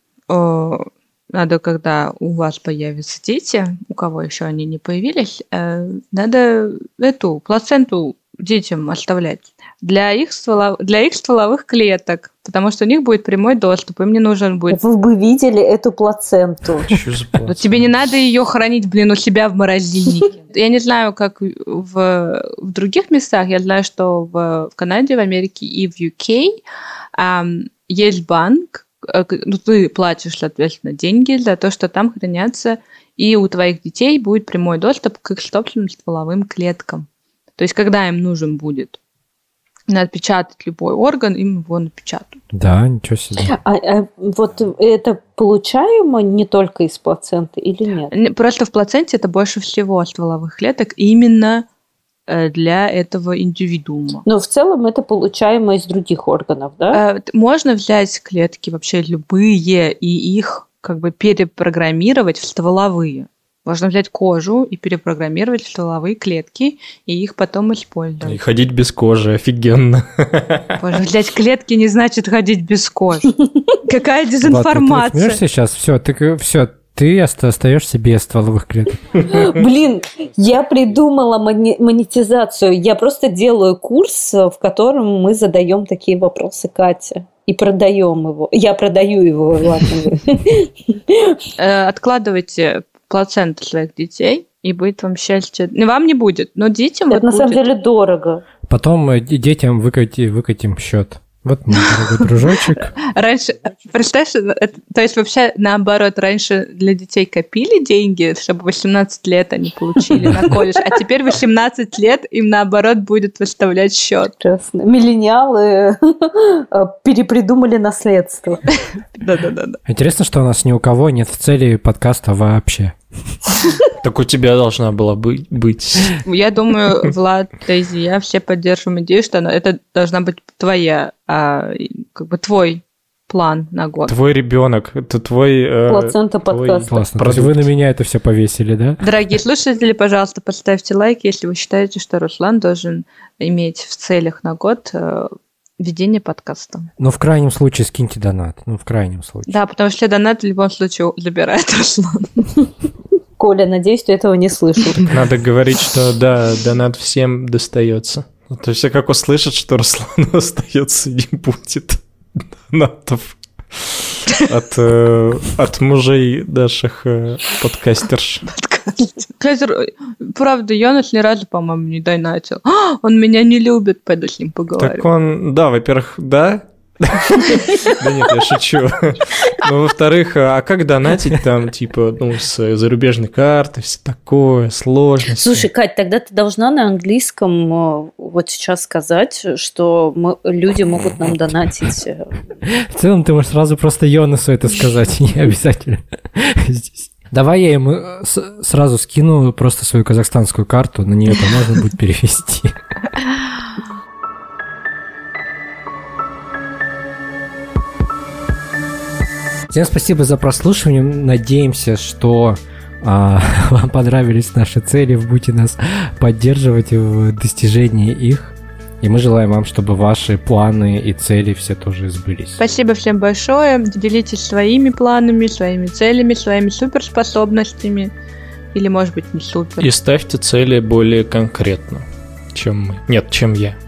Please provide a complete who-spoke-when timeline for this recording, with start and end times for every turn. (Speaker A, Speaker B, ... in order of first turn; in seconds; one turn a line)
Speaker A: 0.3-14.8
Speaker B: 14.7-17.0
Speaker C: 16.9-17.9
Speaker A: 17.5-26.6
Speaker A: 27.2-37.1
Speaker A: 37.6-39.0
Speaker A: 39.9-42.4
Speaker D: 42.5-43.5
Speaker B: 43.4-48.1
Speaker A: 48.1-51.7
Speaker A: 52.3-54.2
Speaker B: 54.3-57.0
Speaker A: 56.9-68.4
Speaker C: 68.2-70.8
Speaker A: 70.8-73.3
Speaker B: 73.4-73.8
Speaker A: 73.8-75.4
Speaker D: 74.4-79.2
Speaker B: 79.3-91.4
Speaker A: 91.6-97.6
Speaker B: 97.1-98.4
Speaker D: 98.7-102.9
Speaker A: 101.8-102.2
Speaker A: 103.0-114.4
Speaker D: 110.2-110.5
Speaker B: 114.4-118.7
Speaker A: 119.2-119.8
Speaker D: 119.9-123.0
Speaker C: 124.0-126.2
Speaker A: 126.2-134.1
Speaker C: 134.1-137.7
Speaker B: 135.9-136.9
Speaker D: 136.9-139.0
Speaker A: 139.0-146.9
Speaker D: 147.0-149.6
Speaker A: 149.5-152.6
Speaker B: 153.4-155.1
Speaker C: 155.1-168.5
Speaker A: 168.5-175.1
Speaker C: 174.8-185.6
Speaker B: 185.4-192.3
Speaker D: 192.8-202.8
Speaker D: 209.7-222.6
Speaker A: 222.6-228.1
Speaker A: 228.7-229.9
Speaker C: 229.8-233.8